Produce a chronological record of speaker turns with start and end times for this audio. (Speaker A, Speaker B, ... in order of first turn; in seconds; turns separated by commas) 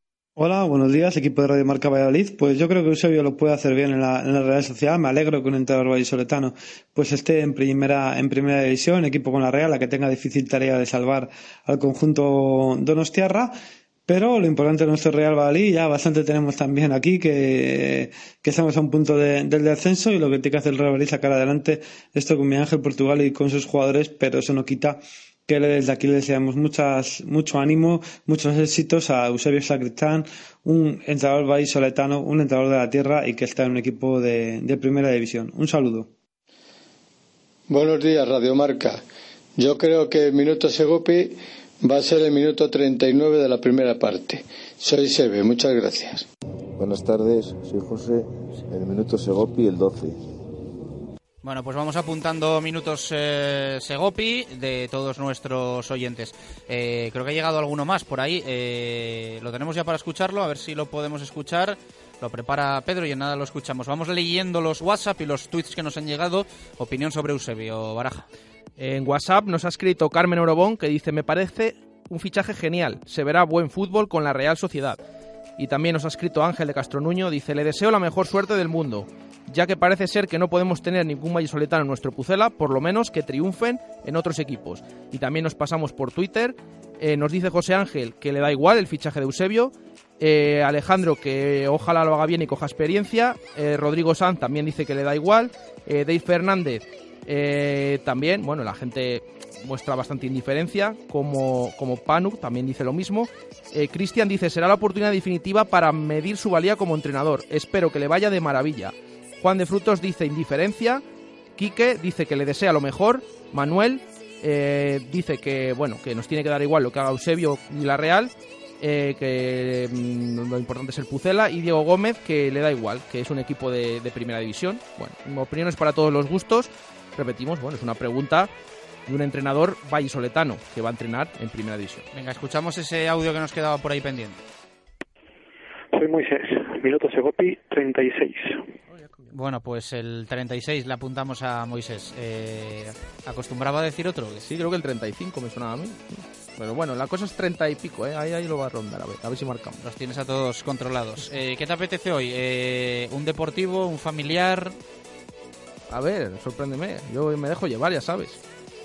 Speaker A: 0.4-13.5, Speaker A: 14.1-36.1, Speaker B: 37.7-39.0, Speaker B: 39.6-46.3, Speaker C: 46.8-50.2, Speaker D: 51.4-68.3, Speaker E: 68.8-75.0, Speaker E: 75.6-111.0, Speaker E: 111.6-128.5, Speaker E: 129.1-132.1, Speaker D: 132.1-134.4, Speaker F: 135.9-138.7, Speaker D: 139.3-144.4, Speaker E: 144.4-149.8, Speaker D: 149.8-154.8, Speaker E: 155.9-158.4